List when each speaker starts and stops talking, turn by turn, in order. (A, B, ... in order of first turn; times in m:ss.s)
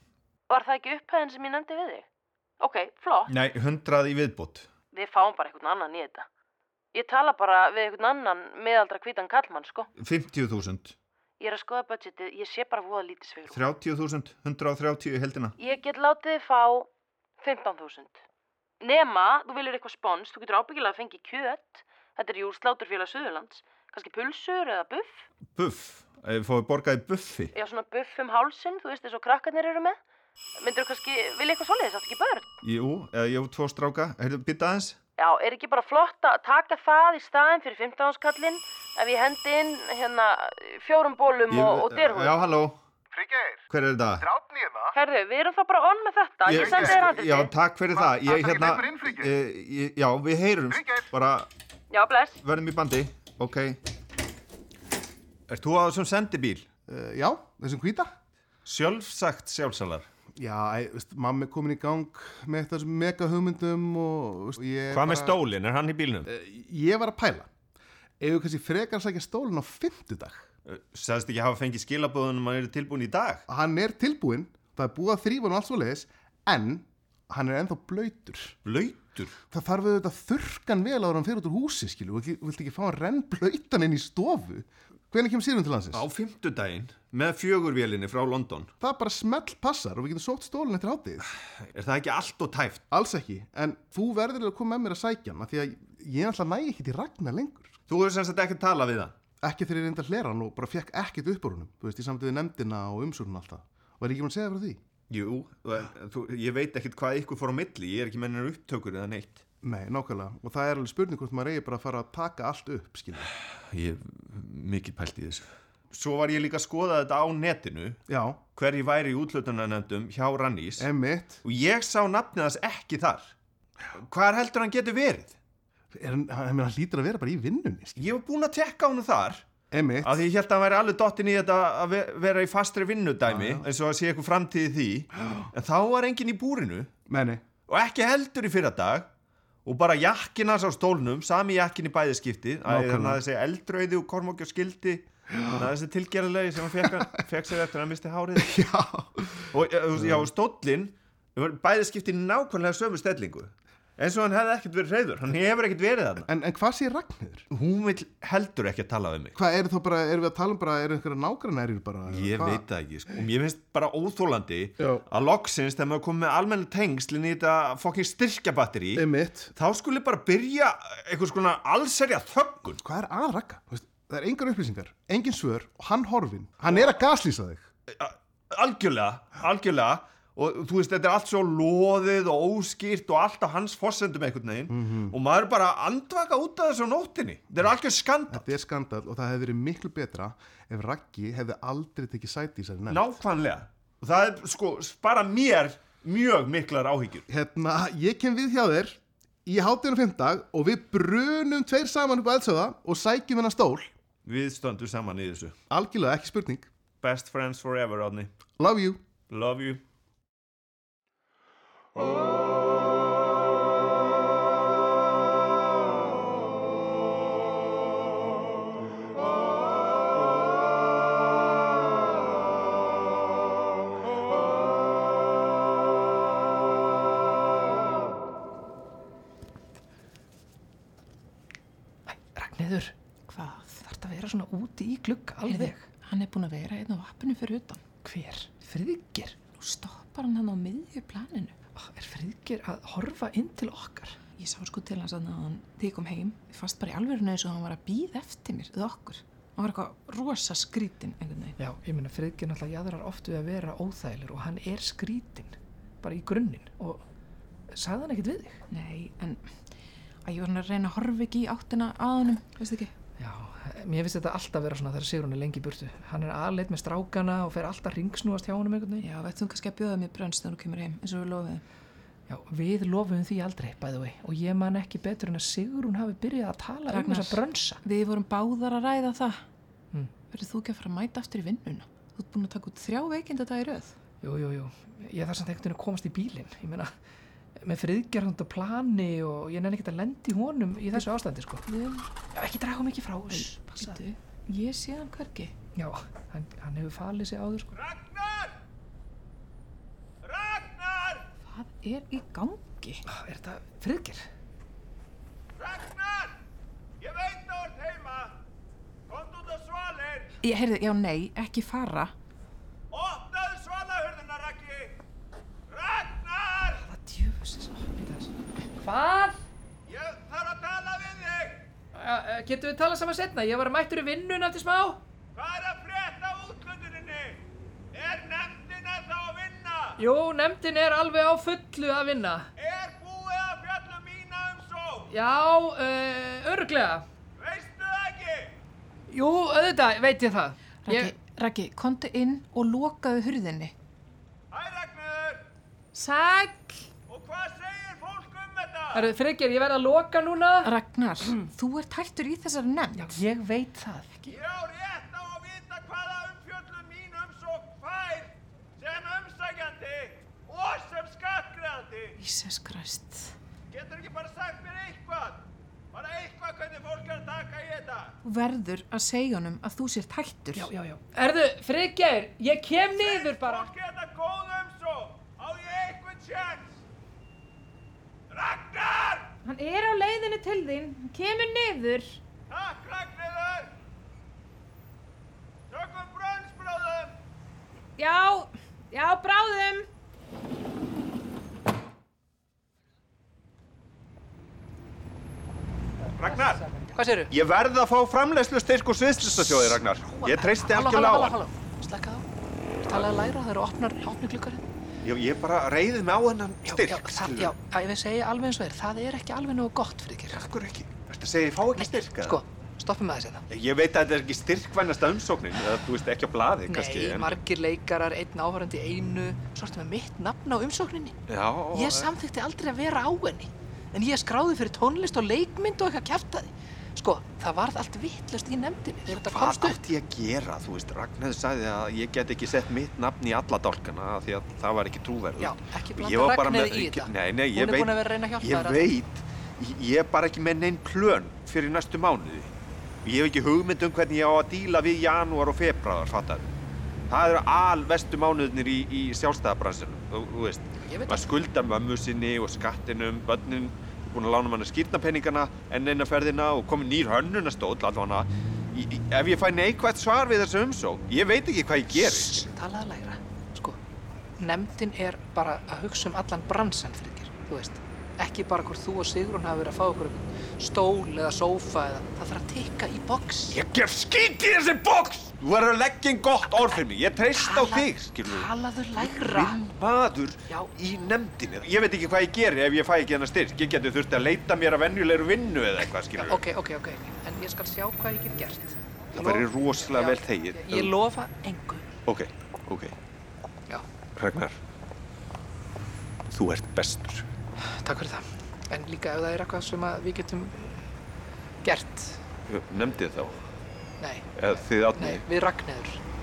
0:00.5-0:02.0 A
0:02.6-0:03.3 A
0:03.3-0:04.7 B
0:04.9-0:06.2 A
0:06.9-0:09.9 A
0:10.0-0:10.9 B
0:11.4-0:13.6 A
0:13.5-0:15.5 B
0:15.6-0:16.9 A
0:17.4-0:18.2 A
0:18.8-0:25.2 A
0:25.5-0:27.5 B
0:27.5-0:30.0 A
0:30.6-0:32.5 A
0:32.6-0:35.0 B
0:35.2-0:42.4 A
0:41.5-0:42.8 B
0:43.1-0:43.6 C
0:43.7-0:44.3 B
0:44.2-0:45.0 C
0:44.9-0:47.5 A
0:46.4-0:51.5 B
0:46.6-0:47.0 C
0:47.9-0:49.3 C
0:50.7-0:51.1 C
0:51.9-0:52.4 A
0:52.4-0:53.8 B
0:55.5-0:56.7 B
0:56.9-0:58.1 C
0:58.6-1:00.1 B
1:00.4-1:05.4 C
1:04.9-1:06.3 B
1:06.2-1:07.5 C
1:08.2-1:10.4 C
1:10.7-1:13.4 B
1:13.5-1:18.6 C
1:18.6-1:19.4 B
1:19.5-1:26.1 C
1:25.9-1:28.7 B
1:28.8-1:31.3 C
1:31.7-1:32.8 B
1:32.9-1:37.7 C
1:37.9-1:39.2 B
1:39.4-1:44.8 C
1:45.1-1:49.4 B
1:49.6-1:53.3 C
1:53.6-1:58.0 B
1:58.1-1:58.4 C
1:58.5-2:00.9 B
2:00.8-2:01.4 C
2:01.4-2:03.3 B
2:03.9-2:05.4 B
2:05.9-2:08.1 C
2:08.0-2:09.4 B
2:09.7-2:10.2 C
2:10.0-2:16.9 B
2:13.3-2:13.6 C
2:17.1-2:17.4 C
2:17.7-2:19.1 B
2:19.6-2:28.6 B
2:22.6-2:23.2 C
2:25.3-2:25.7 C
2:26.7-2:27.1 C
2:28.4-2:30.3 C
2:29.5-2:36.3 B
2:36.2-2:37.5 C
2:37.5-2:39.4 B
2:39.4-2:43.2 C
2:42.1-2:49.0 B
2:44.8-2:45.0 C
2:48.9-2:49.5 C
2:49.5-2:52.8 B
2:52.8-2:57.7 C
2:56.7-2:57.0 B
2:57.9-3:08.5 B
3:04.7-3:05.2 C
3:08.3-3:13.0 C
3:12.9-3:17.2 B
3:17.3-3:23.9 C
3:24.2-3:25.6 B
3:25.7-3:26.7 C
3:27.0-3:28.3 B
3:28.6-3:29.0 C
3:29.3-3:29.8 B
3:52.1-3:52.9 D
3:53.3-3:53.8 E
3:53.8-3:55.9 D
3:55.4-3:57.8 E
3:58.0-3:59.4 D
3:59.6-4:01.5 E
4:01.8-4:04.2 D
4:04.4-4:11.6 E
4:11.6-4:17.0 D
4:17.7-4:18.6 D
4:18.7-4:19.7 E
4:20.2-4:22.9 E
4:23.2-4:29.1 D
4:29.0-4:31.6 E
4:32.3-4:37.8 D
4:36.9-4:39.4 E
4:40.3-4:43.9 E
4:44.2-4:46.9 D
4:47.6-4:51.6 D
4:51.6-4:52.1 E
4:52.3-4:54.0 D
4:53.3-4:55.5 E
4:55.8-4:57.8 D
4:57.8-4:58.5 B
5:00.2-5:01.2 B
5:01.5-5:03.0 E
5:03.0-5:04.2 D
5:05.6-5:06.4 B
5:07.0-5:08.3 B
5:09.1-5:10.3 B
5:10.4-5:12.1 E
5:12.9-5:15.0 B
5:15.7-5:16.8 B
5:16.8-5:19.4 D
5:19.9-5:21.6 B
5:21.9-5:25.0 D
5:25.3-5:30.0 B
5:30.0-5:32.5 D
5:32.6-5:35.1 B
5:35.1-5:37.0 D
5:37.4-5:38.6 B
5:39.1-5:41.1 D
5:40.8-5:43.7 E
5:44.5-5:45.4 B
5:46.0-5:46.7 E
5:47.1-5:49.0 B
5:48.9-5:50.7 D
5:50.6-5:53.2 E
5:52.9-5:54.3 D
5:54.3-6:02.2 B
6:02.2-6:03.3 E
6:03.7-6:08.1 B
6:08.2-6:10.7 E
6:10.5-6:13.7 D
6:12.9-6:16.8 B
6:18.3-6:19.3 B
6:19.4-6:22.2 F
6:22.5-6:23.7 B
6:25.7-6:27.1 B
6:28.0-6:29.9 F
6:36.2-6:36.6 B
6:36.2-6:37.3 D
6:37.3-6:41.3 B
6:40.0-6:42.3 D
6:42.8-6:44.6 D
6:45.0-6:47.5 B
6:46.6-6:50.4 D
6:50.3-6:52.4 B
6:51.8-6:53.4 D
6:53.5-6:57.3 B
6:56.7-7:01.2 D
7:01.3-7:02.1 B
7:01.7-7:09.8 D
7:09.1-7:22.5 B
7:15.4-7:18.9 D
7:23.0-7:26.5 B
7:27.1-7:42.4 B
7:30.8-7:31.3 D
7:41.9-7:43.8 D
7:44.4-7:53.6 D
7:53.5-8:06.4 B
7:57.4-7:59.6 D
8:06.2-8:11.9 D
8:09.1-8:10.9 B
8:12.0-8:12.9 B
8:14.2-8:14.6 B
8:16.3-8:17.3 B
8:17.6-8:20.8 D
8:21.6-8:22.2 D
8:22.5-8:23.4 B
8:24.0-8:26.0 D
8:24.4-8:25.2 B